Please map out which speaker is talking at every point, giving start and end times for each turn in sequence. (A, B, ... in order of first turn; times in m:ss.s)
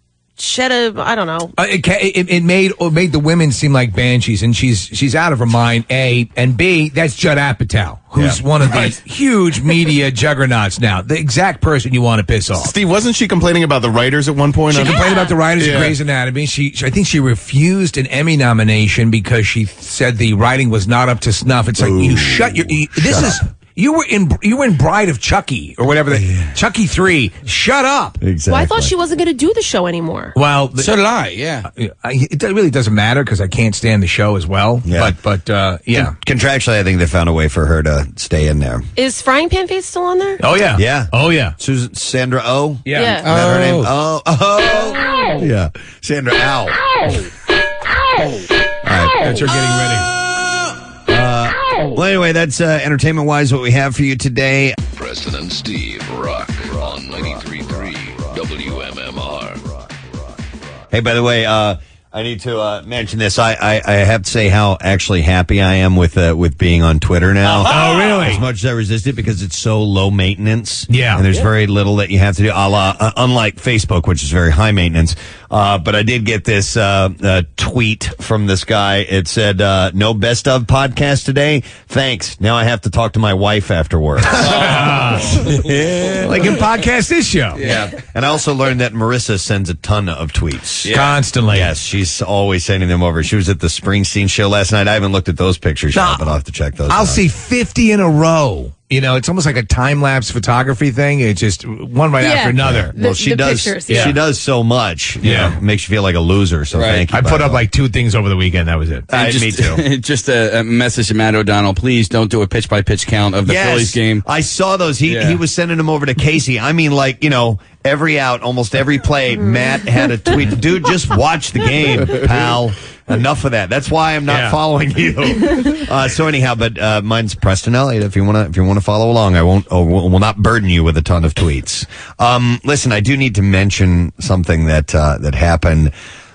0:00.4-0:01.5 A
0:01.6-0:12.7 B
0:12.6-0:15.0 C
0:14.7-0:28.2 B
0:14.9-0:15.3 A
0:15.6-0:15.9 C
0:21.8-0:23.4 D
0:26.1-0:26.5 D
0:28.2-0:28.9 D
0:28.5-0:30.4 A
0:30.3-0:30.9 B
0:30.8-0:31.7 E
0:31.8-0:36.1 B
0:34.8-0:35.1 D
0:35.9-0:38.8 D
0:39.0-0:40.4 A
0:40.4-0:41.5 B
0:40.8-0:46.8 D
0:42.8-0:43.9 B
0:42.9-0:43.2 A
0:48.8-0:49.2 D
0:49.2-0:50.1 B
0:51.1-0:54.8 D
0:54.9-0:59.6 F
1:00.9-1:26.6 D
1:07.5-1:08.4 B
1:10.9-1:11.3 B
1:24.3-1:27.6 B
1:27.6-1:27.9 E
1:27.6-1:30.9 D
1:30.8-1:31.2 E
1:30.9-1:31.7 B
1:31.5-1:37.2 D
1:35.9-1:36.3 B
1:36.9-1:42.9 B
1:42.2-1:44.2 A
1:42.6-1:47.6 D
1:43.9-1:44.2 B
1:45.2-1:45.6 B
1:46.7-1:47.0 E
1:47.1-1:49.1 B
1:49.1-1:49.8 D
1:49.1-1:54.2 E
1:53.4-2:15.9 D
1:55.1-1:55.4 E
1:59.4-1:59.8 A
2:04.3-2:04.6 B